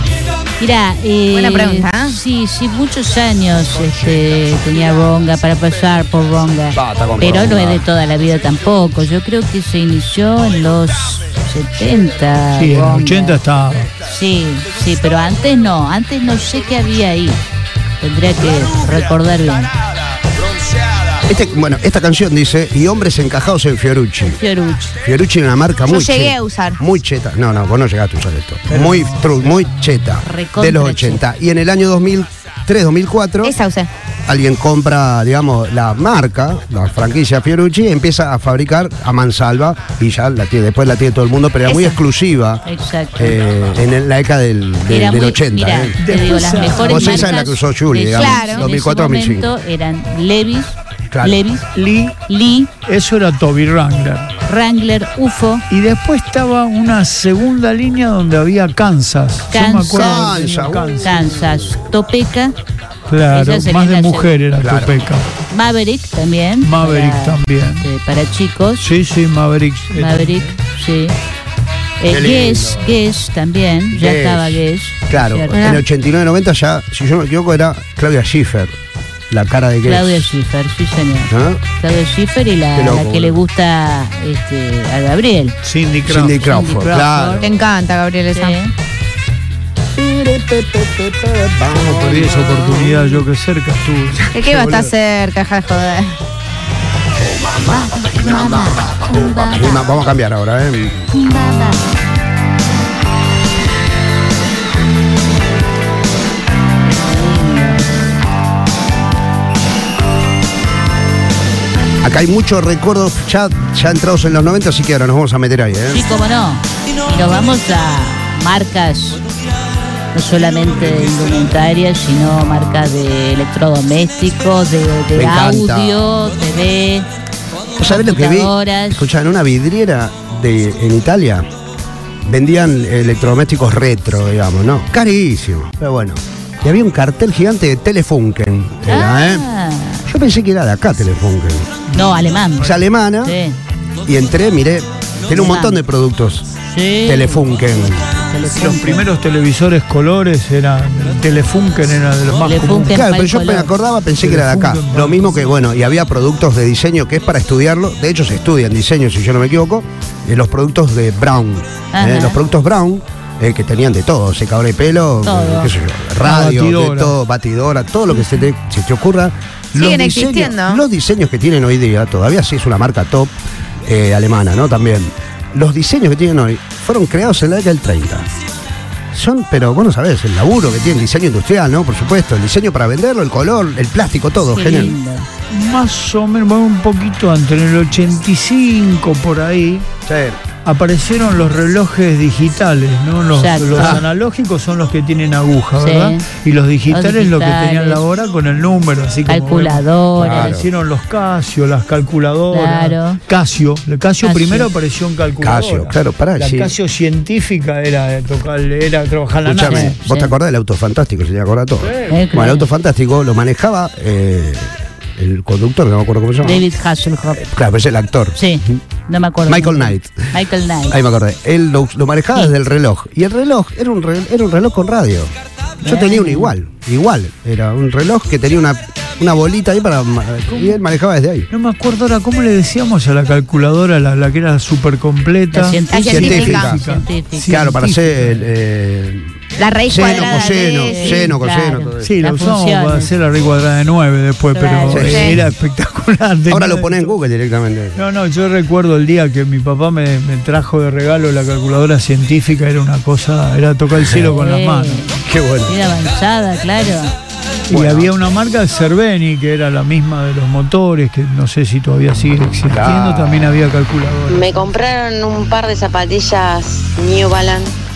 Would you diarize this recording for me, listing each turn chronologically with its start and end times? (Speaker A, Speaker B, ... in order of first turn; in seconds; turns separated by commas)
Speaker A: 0.6-13.4, Speaker B: 1.3-2.2, Speaker C: 6.7-7.8, Speaker D: 12.5-13.9, Speaker A: 14.0-17.4, Speaker A: 18.0-19.7, Speaker C: 21.2-24.4, Speaker A: 24.2-25.0, Speaker C: 25.0-33.5, Speaker B: 25.9-26.8, Speaker D: 28.7-29.7, Speaker A: 30.2-31.2, Speaker B: 33.4-33.9, Speaker C: 34.2-42.6, Speaker A: 42.6-43.4, Speaker C: 43.2-46.0, Speaker A: 44.9-51.7, Speaker D: 46.0-47.3, Speaker C: 46.8-49.5, Speaker B: 48.1-48.6, Speaker C: 51.1-51.4, Speaker D: 51.7-52.2, Speaker A: 52.3-52.7, Speaker D: 52.8-54.3, Speaker A: 54.5-55.6, Speaker D: 55.7-61.2, Speaker A: 59.5-60.3, Speaker C: 59.9-61.8, Speaker A: 61.0-62.5, Speaker D: 63.1-65.2, Speaker A: 63.3-64.4, Speaker C: 64.6-65.0, Speaker A: 65.5-68.8, Speaker D: 66.6-67.9, Speaker D: 68.8-70.5, Speaker A: 69.9-71.2, Speaker A: 72.0-75.8, Speaker C: 72.1-73.0, Speaker C: 73.9-78.8, Speaker B: 75.5-75.8, Speaker C: 79.3-80.3, Speaker A: 79.8-85.6, Speaker C: 81.3-81.6, Speaker C: 82.7-83.4, Speaker D: 85.6-87.1, Speaker C: 86.0-87.5, Speaker A: 86.4-87.4, Speaker B: 87.4-88.6, Speaker A: 88.3-88.7, Speaker C: 89.9-92.8, Speaker D: 91.8-94.3, Speaker B: 94.3-96.2, Speaker C: 94.4-94.9, Speaker C: 97.2-101.1, Speaker A: 97.7-99.8, Speaker A: 101.1-101.8, Speaker A: 107.0-107.8, Speaker C: 112.0-116.0, Speaker A: 115.9-119.2, Speaker A: 120.1-127.1, Speaker C: 125.1-126.0, Speaker C: 127.8-131.5, Speaker A: 127.8-129.0, Speaker C: 132.2-139.4, Speaker A: 138.9-140.0, Speaker C: 140.1-141.8, Speaker A: 141.9-143.6, Speaker C: 142.6-143.3, Speaker C: 144.0-146.5, Speaker A: 145.3-145.8, Speaker A: 146.6-147.6, Speaker C: 147.1-148.2, Speaker A: 148.1-149.1, Speaker D: 148.6-153.0, Speaker A: 152.4-153.7, Speaker C: 152.9-173.3, Speaker D: 154.2-155.4, Speaker A: 161.9-162.4, Speaker A: 165.2-165.7, Speaker D: 166.2-167.2, Speaker B: 169.7-170.8, Speaker C: 173.8-178.3, Speaker C: 179.1-184.9, Speaker A: 184.5-185.3, Speaker D: 185.5-189.9, Speaker C: 190.1-190.4, Speaker D: 190.6-210.0, Speaker A: 193.3-194.0, Speaker C: 193.8-194.0, Speaker A: 195.8-196.3, Speaker A: 196.9-198.0, Speaker A: 199.3-200.6, Speaker C: 200.2-200.7, Speaker A: 202.5-203.2, Speaker A: 204.2-204.7, Speaker C: 205.4-206.7, Speaker C: 209.4-216.6, Speaker A: 209.6-210.3, Speaker A: 212.1-212.7, Speaker A: 216.4-217.4, Speaker C: 217.3-218.8, Speaker A: 218.3-221.0, Speaker C: 219.5-220.3, Speaker C: 220.9-231.5, Speaker A: 225.8-226.5, Speaker D: 231.5-238.4, Speaker A: 235.5-237.6, Speaker B: 235.9-236.8, Speaker C: 236.1-236.8, Speaker C: 237.5-239.3, Speaker B: 239.6-241.3, Speaker C: 239.9-242.1, Speaker A: 240.0-243.1, Speaker D: 242.0-247.1, Speaker A: 244.5-245.2, Speaker C: 244.9-245.5, Speaker B: 245.1-245.4, Speaker C: 246.5-248.0, Speaker D: 247.9-255.1, Speaker C: 254.0-254.3, Speaker A: 254.3-257.1, Speaker C: 255.2-255.7, Speaker D: 257.7-264.6, Speaker C: 257.7-258.1, Speaker C: 262.7-263.5, Speaker E: 264.3-267.7